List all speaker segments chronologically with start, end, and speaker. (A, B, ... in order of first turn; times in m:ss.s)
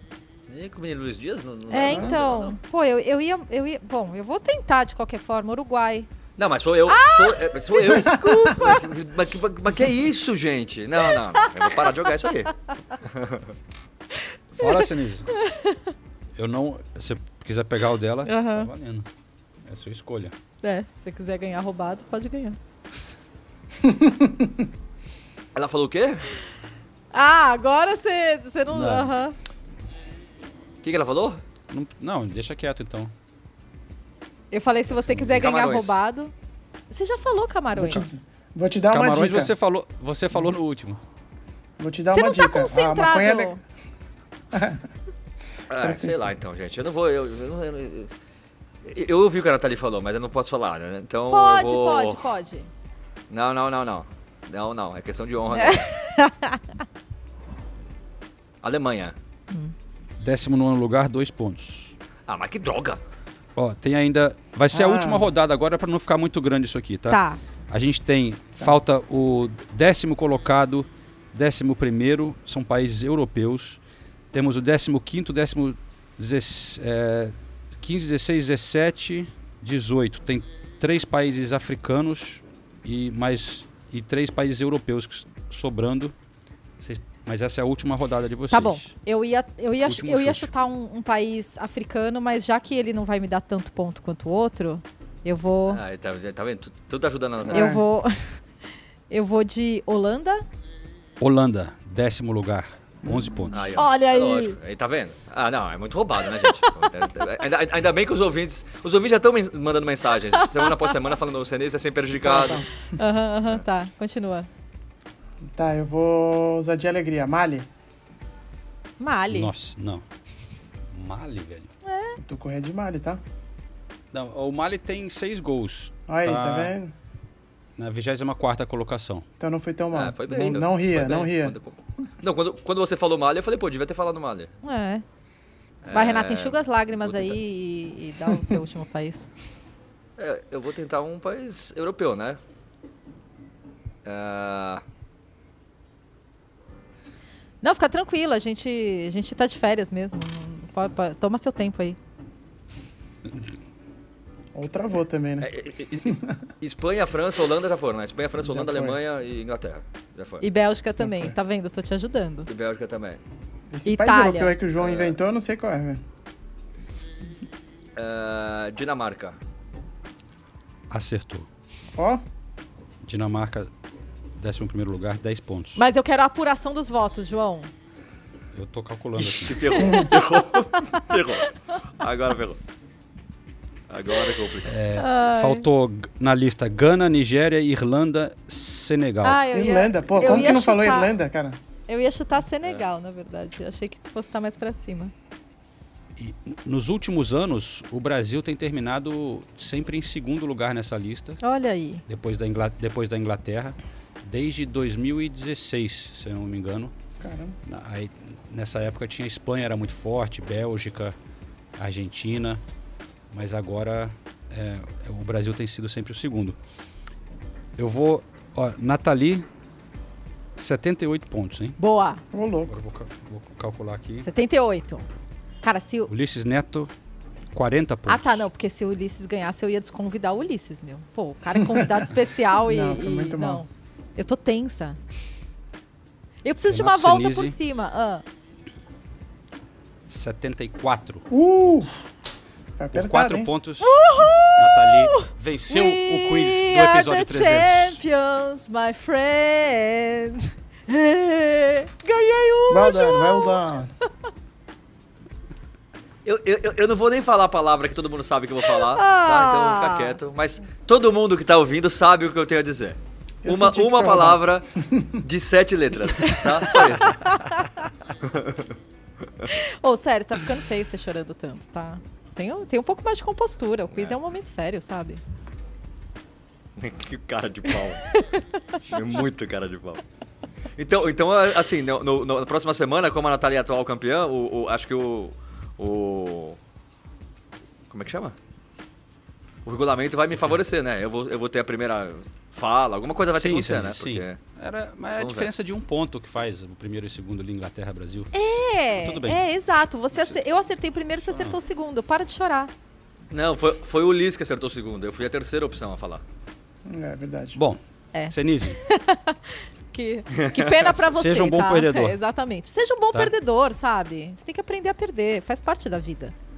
0:00.5-0:02.6 A
0:01.7-0:06.1 B
0:01.8-0:02.2 C
0:06.4-0:12.5 A
0:06.9-0:08.8 B
0:13.0-0:13.5 A
0:14.6-0:15.5 D
0:16.4-0:19.0 D
0:18.2-0:18.7 B
0:19.6-0:20.3 D
0:20.6-0:22.6 B
0:23.8-0:24.5 C
0:25.5-0:26.3 A
0:27.1-0:29.3 B
0:28.7-0:29.1 D
0:30.8-0:31.4 A
0:31.7-0:33.1 D
0:34.5-0:36.3 B
0:35.1-0:36.0 A
0:36.9-0:38.1 B
0:37.7-0:39.5 C
0:38.9-0:41.0 D
0:41.8-0:43.6 C
0:42.1-0:43.6 B
0:44.5-0:44.8 C
0:45.7-0:48.1 A
0:45.8-0:46.3 C
0:48.8-0:52.2 A
0:51.3-0:52.7 B
0:53.3-0:55.9 A
0:55.5-0:56.6 B
0:58.6-0:59.2 A
1:00.2-1:01.9 D
1:02.3-1:03.0 A
1:03.6-1:13.8 D
1:04.7-1:05.3 C
1:07.1-1:07.4 B
1:14.3-1:26.1 D
1:26.8-1:28.9 D
1:28.5-1:35.8 B
1:29.8-1:30.5 D
1:35.7-1:37.7 A
1:37.4-1:37.8 C
1:37.5-1:38.4 B
1:39.1-1:40.4 B
1:41.2-1:43.8 D
1:43.0-1:43.5 C
1:43.5-1:52.6 A
1:43.8-1:44.6 B
1:52.2-1:52.7 C
1:53.0-1:54.5 B
1:55.5-1:57.7 C
1:59.0-1:59.5 B
1:59.3-2:00.0 D
2:00.9-2:01.7 D
2:01.8-2:02.2 B
2:02.2-2:03.2 C
2:04.1-2:06.7 D
2:06.1-2:06.9 C
2:07.8-2:09.2 D
2:09.4-2:11.5 C
2:09.9-2:14.5 A
2:14.6-2:15.0 B
2:15.8-2:17.4 A
2:15.9-2:19.3 B
2:20.2-2:22.4 A
2:24.0-2:24.8 A
2:27.6-2:32.0 B
2:34.5-2:35.5 C
2:35.4-2:40.4 A
2:36.0-2:36.3 C
2:38.4-2:39.0 C
2:40.4-2:42.5 B
2:41.0-2:41.3 C
2:42.5-2:43.2 A
2:43.7-2:46.0 C
2:43.8-2:44.5 B
2:44.8-2:45.2 A
2:48.0-2:49.4 A
2:50.9-2:51.5 D
2:52.0-2:52.2 C
2:53.0-2:53.7 D
2:54.4-2:55.8 D
2:55.7-2:57.7 B
2:58.5-2:59.8 D
2:59.2-3:02.6 A
3:03.9-3:04.7 A
3:04.6-3:09.4 D
3:05.0-3:05.7 B
3:09.2-3:11.1 B
3:09.5-3:11.6 C
3:11.9-3:15.1 B
3:16.2-3:21.4 D
3:21.4-3:22.0 B
3:22.1-3:26.9 D
3:27.2-3:27.6 C
3:27.6-3:31.1 D
3:31.8-3:32.6 D
3:33.3-3:36.6 D
3:37.8-3:39.4 D
3:40.6-3:41.8 D
3:41.8-3:42.2 B
3:42.3-3:42.7 C
3:42.7-3:44.3 D
3:44.2-3:45.0 B
3:45.6-3:46.1 B
3:46.1-3:46.9 D
3:47.5-3:48.4 D
3:48.1-3:55.0 B
3:52.7-3:53.6 C
3:56.4-3:58.2 B
3:56.7-3:57.5 D
4:00.1-4:01.2 D
4:01.3-4:02.0 C
4:02.8-4:03.5 C
4:02.9-4:08.0 D
4:03.8-4:13.6 B
4:12.7-4:13.9 C
4:16.2-4:24.6 A
4:18.7-4:20.1 B
4:23.4-4:25.1 C
4:25.2-4:27.2 A
4:26.8-4:27.7 B
4:28.2-4:28.7 A
4:29.8-4:35.2 B
4:36.8-4:38.0 A
4:38.8-4:40.0 A
4:40.8-4:46.6 A
4:47.9-4:48.4 A
4:49.6-4:54.4 A
4:53.2-4:58.3 D
4:55.2-4:55.5 A
4:58.3-5:02.7 B
4:59.0-4:59.4 D
5:01.3-5:01.6 D
5:03.3-5:06.2 A
5:06.9-5:07.6 C
5:08.1-5:16.3 B
5:08.3-5:08.8 D
5:10.4-5:10.8 A
5:11.0-5:12.2 D